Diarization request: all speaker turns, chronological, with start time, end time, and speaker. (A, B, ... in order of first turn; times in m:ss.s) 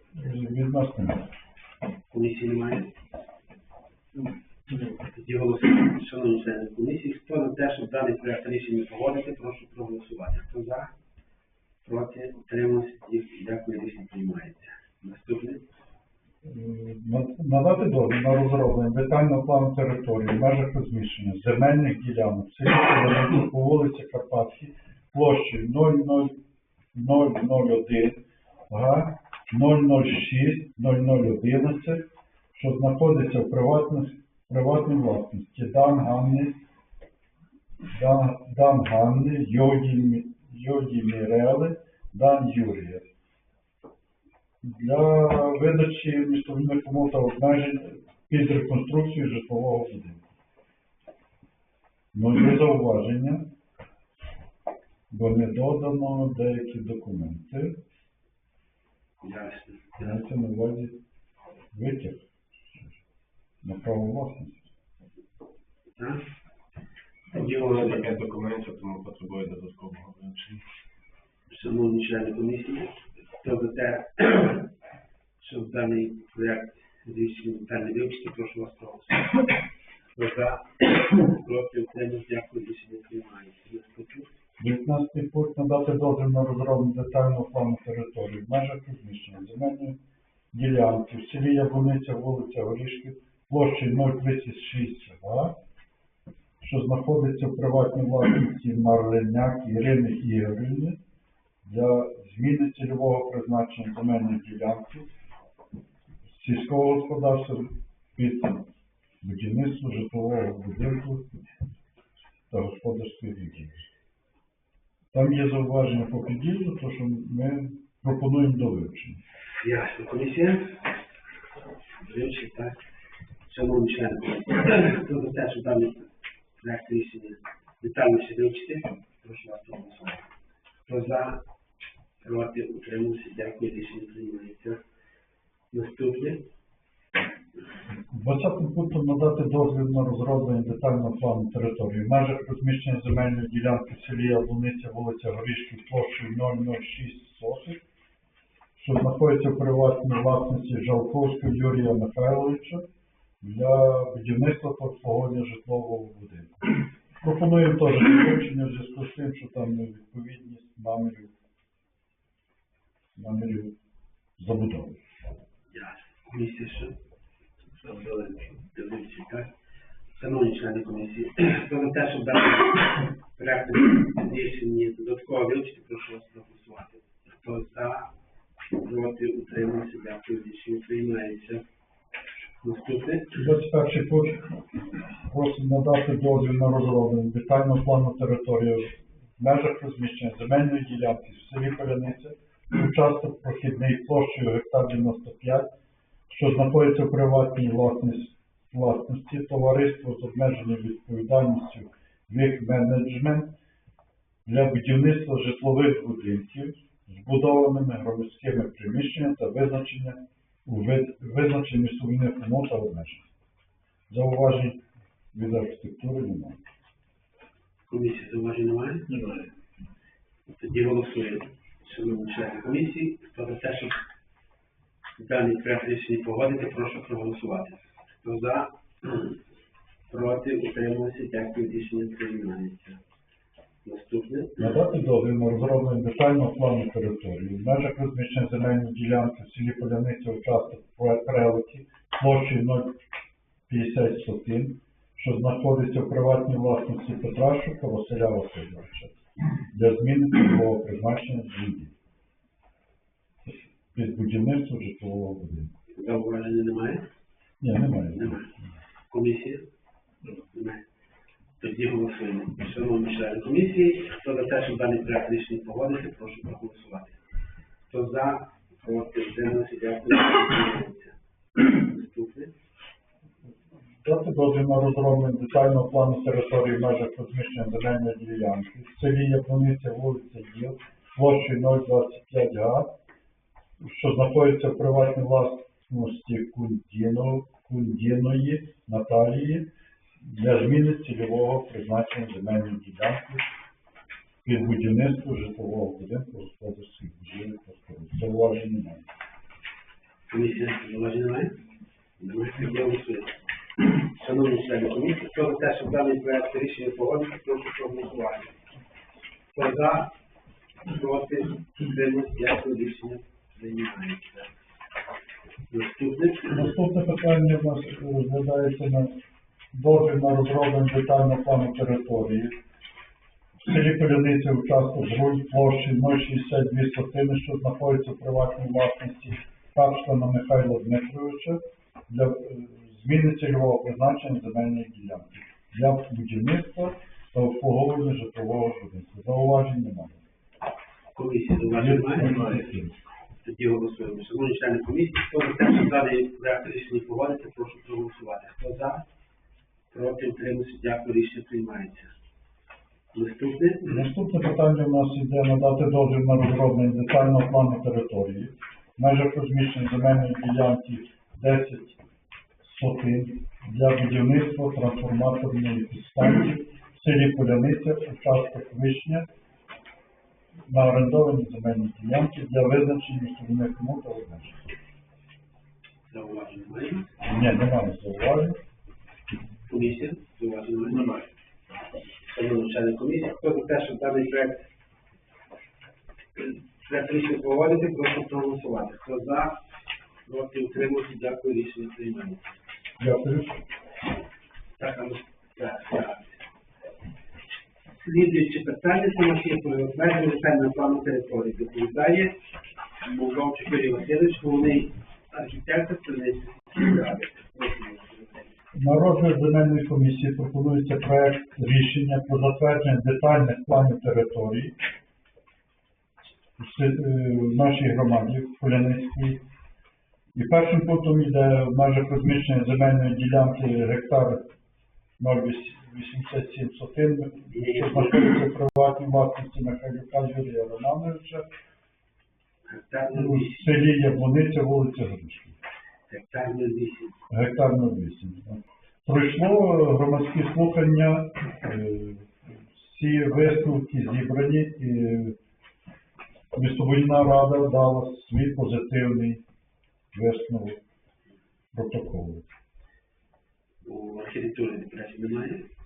0:00.2-0:01.3 A
0:02.1-0:02.9 B
0:05.0-0:10.9 B
0:11.8-0:15.6 B
0:16.4-0:26.4 A
0:26.9-0:36.6 A
0:37.9-0:43.0 A
0:44.6-0:50.2 A
0:52.1-0:53.5 A
0:55.1-0:57.8 A
0:59.2-1:00.0 B
1:00.0-1:01.0 A
1:01.7-1:02.2 A
1:03.6-1:04.6 A
1:06.0-1:06.2 B
1:07.3-1:08.1 B
1:07.3-1:10.6 C
1:11.5-1:14.7 B
1:15.4-1:19.4 B
1:20.2-1:24.3 B
1:24.6-1:30.0 A
1:30.5-1:35.6 A
1:36.6-1:41.0 A
1:41.6-1:45.1 A
1:46.3-1:48.7 A
1:49.2-1:51.3 A
1:52.5-1:53.9 A
1:55.1-1:59.2 A
1:59.6-2:00.8 B
2:02.0-2:02.8 B
2:03.4-2:10.2 B
2:10.9-2:11.4 B
2:12.2-2:14.8 B
2:15.7-2:16.4 B
2:18.1-2:27.8 A
2:28.8-2:32.8 A
2:33.4-2:41.3 A
2:43.1-2:43.7 A
2:44.4-2:45.0 A
2:45.7-2:47.0 B
2:48.6-2:49.5 B
2:50.2-2:58.1 B
2:58.8-3:01.6 B
3:02.6-3:03.4 B
3:03.4-3:04.6 A
3:05.2-3:15.7 A
3:16.3-3:23.5 A
3:24.4-3:33.2 A
3:34.1-3:34.8 A
3:35.3-3:36.6 A
3:37.9-3:39.3 B
3:40.6-3:44.0 B
3:45.2-3:49.4 B
3:50.1-3:53.0 B
3:53.8-3:54.6 B
3:54.6-4:03.0 A
4:03.7-4:09.2 A
4:09.7-4:11.9 A
4:13.4-4:15.7 A
4:15.9-4:17.0 B
4:17.6-4:18.5 A
4:18.1-4:18.5 B
4:19.1-4:19.6 B
4:20.5-4:20.8 B
4:21.6-4:27.2 B
4:27.9-4:32.5 B
4:34.0-4:42.9 A
4:43.8-4:49.7 A
4:50.2-4:53.5 A
4:54.4-4:59.0 A
5:00.3-5:01.6 B
5:02.2-5:08.6 B
5:09.5-5:10.1 B
5:10.9-5:14.5 B
5:15.7-5:16.7 B
5:16.5-5:19.2 A
5:19.7-5:22.5 A
5:23.6-5:40.2 A
5:41.1-5:42.7 B
5:41.7-5:42.9 A
5:43.4-5:49.0 B
5:49.9-5:52.1 B
5:53.1-5:54.0 B
5:53.8-6:02.0 A
6:02.6-6:09.2 A
6:10.7-6:14.7 A
6:16.1-6:17.1 B
6:17.2-6:18.6 A
6:19.7-6:21.2 B
6:22.2-6:24.7 B
6:26.4-6:29.6 B
6:30.2-6:32.6 B
6:33.0-6:33.6 A
6:34.8-6:36.4 B
6:37.9-6:42.4 B
6:43.0-6:48.5 B
6:48.7-6:54.8 A
6:56.6-6:59.4 A
7:00.3-7:04.5 A
7:05.2-7:11.4 A
7:07.5-7:08.3 B
7:12.6-7:13.7 B
7:13.1-7:15.6 A
7:16.1-7:17.2 B
7:17.3-7:25.4 A
7:26.5-7:29.4 A
7:30.1-7:30.8 A
7:31.7-7:32.4 A
7:33.8-7:35.6 B